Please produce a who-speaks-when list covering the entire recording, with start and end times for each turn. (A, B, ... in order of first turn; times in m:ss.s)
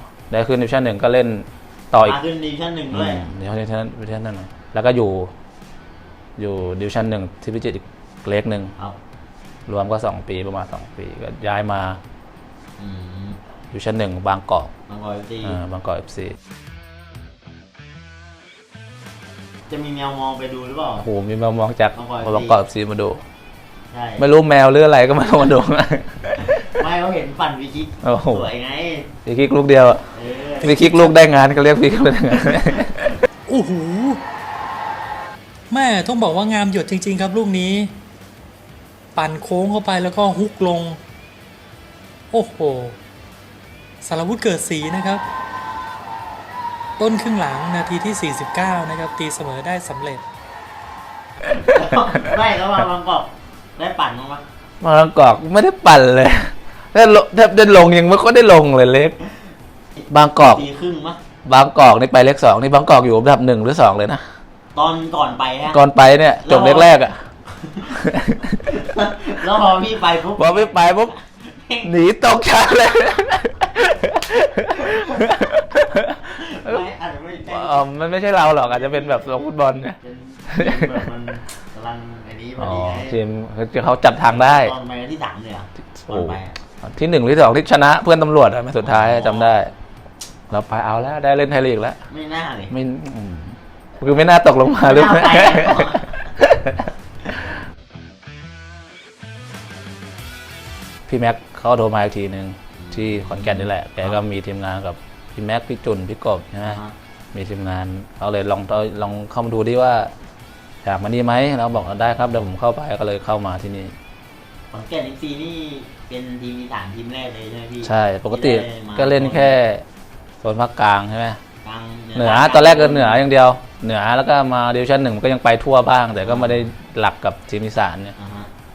0:00.3-0:02.2 A
0:02.0-0:03.3 B
0:02.9-0:05.3 A
0:06.4-0:08.7 A
0:09.7-0:12.0 A
0:12.8-0:13.4 B
0:13.7-0:14.7 A
0:14.9-0:15.6 B
0:15.4-0:16.4 A
0:19.7-0:21.1 B
0:21.0-0:23.2 A
0:21.9-0:22.6 B
0:23.9-0:24.3 B
0:24.2-0:26.7 A
0:26.4-0:29.1 B
0:28.0-0:28.4 A
0:29.3-0:30.0 A
0:30.1-0:31.2 B
0:30.6-0:33.2 A
0:33.5-0:34.2 C
0:35.7-0:38.0 C
0:39.2-0:41.0 C
0:42.3-0:43.0 C
0:44.0-0:45.2 C
0:47.0-0:50.2 C
0:51.4-0:54.4 B
0:54.8-0:59.2 A
1:00.0-1:01.2 B
1:00.1-1:00.7 A
1:01.4-1:04.2 A
1:04.8-1:05.8 B
1:05.7-1:07.2 A
1:06.4-1:07.0 B
1:07.5-1:08.0 B
1:07.9-1:08.7 A
1:08.6-1:11.9 B
1:10.4-1:11.1 A
1:11.8-1:16.8 A
1:14.8-1:15.3 B
1:16.3-1:23.2 B
1:17.5-1:20.0 A
1:20.5-1:21.0 A
1:22.6-1:24.7 A
1:24.2-1:26.6 B
1:26.0-1:29.7 A
1:28.8-1:29.6 B
1:30.5-1:32.0 A
1:32.1-1:32.7 B
1:32.7-1:36.9 A
1:34.8-1:36.2 B
1:41.1-1:46.8 A
1:42.8-1:44.2 B
1:46.6-1:46.9 B
1:47.3-1:50.1 A
1:50.8-1:53.9 A
1:51.8-1:52.5 B
1:54.7-1:59.6 B
1:57.8-1:59.8 A
2:00.4-2:01.4 A
2:01.6-2:03.3 B
2:02.2-2:08.1 A
2:06.2-2:06.7 B
2:08.2-2:08.5 B